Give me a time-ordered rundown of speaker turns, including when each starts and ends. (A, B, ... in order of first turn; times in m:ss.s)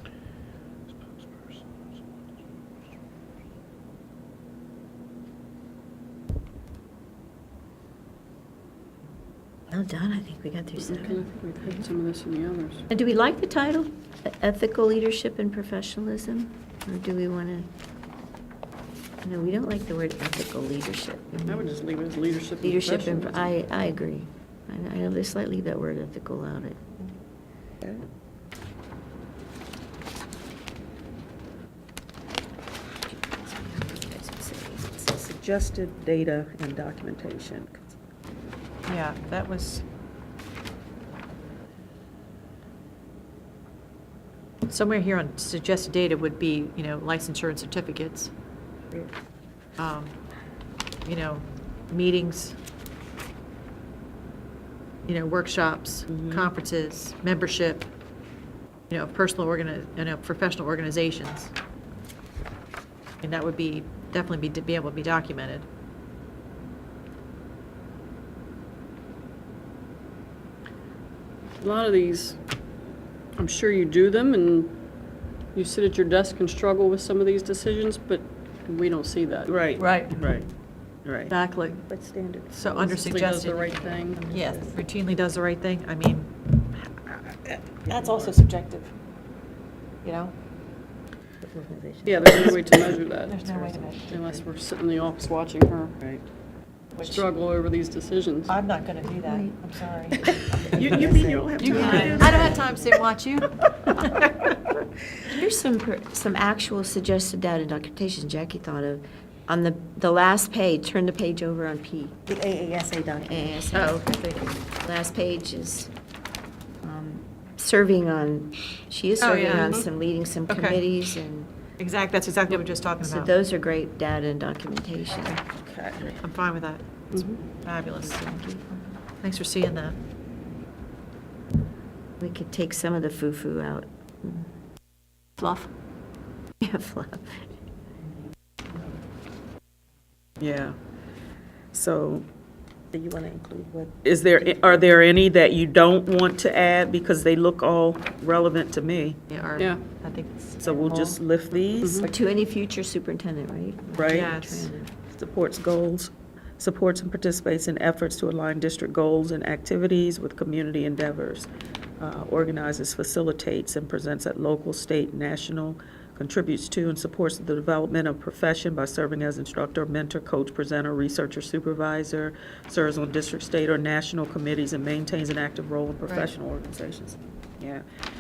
0:09.7-0:11.9 A
0:10.8-0:12.9 B
0:12.9-0:17.7 A
0:19.2-0:21.9 A
0:21.5-0:23.6 B
0:22.6-0:27.1 A
0:33.1-0:35.1 A
0:35.1-0:38.0 C
0:38.9-0:39.8 D
0:44.7-0:48.3 D
0:49.8-0:50.2 D
0:51.0-0:52.6 D
0:55.0-0:57.9 D
0:56.1-0:56.5 C
0:58.9-1:01.5 D
1:03.2-1:05.7 D
1:11.6-1:12.4 B
1:13.4-1:14.9 B
1:15.5-1:20.2 B
1:19.5-1:20.5 C
1:19.8-1:20.3 D
1:21.0-1:21.3 C
1:21.3-1:21.8 B
1:21.8-1:22.9 E
1:22.5-1:26.6 D
1:22.8-1:24.4 B
1:24.2-1:24.8 E
1:27.8-1:28.9 D
1:27.9-1:28.3 C
1:30.0-1:30.3 D
1:31.5-1:32.4 E
1:32.0-1:36.0 B
1:32.6-1:34.5 D
1:36.9-1:37.3 D
1:37.0-1:38.6 B
1:38.5-1:41.0 D
1:39.2-1:39.6 A
1:40.2-1:42.6 A
1:40.7-1:42.9 C
1:41.0-1:42.6 E
1:41.6-1:42.2 B
1:41.6-1:44.3 D
1:45.2-1:52.2 A
1:52.3-1:53.6 E
1:53.3-1:55.9 A
1:53.7-1:54.6 D
1:56.8-2:01.5 A
1:59.2-1:59.9 D
2:00.5-2:00.8 D
2:01.8-2:03.3 D
2:03.0-2:05.4 A
2:05.6-2:06.2 C
2:06.2-2:08.3 D
2:07.1-2:07.4 B
2:07.8-2:08.8 A
2:09.2-2:10.0 D
2:12.2-2:14.5 A
2:15.4-2:15.7 D
2:16.6-2:17.4 A
2:20.4-2:20.8 C
2:21.7-2:22.3 C
2:22.9-2:24.0 E
2:24.0-2:29.2 C
2:29.3-2:31.2 D
2:29.6-2:29.9 B
2:30.6-2:32.1 C
2:31.8-2:32.1 B
2:32.0-2:34.9 A
2:33.9-2:34.4 C
2:34.1-2:34.7 D
2:35.1-2:41.5 C
2:42.0-2:57.8 C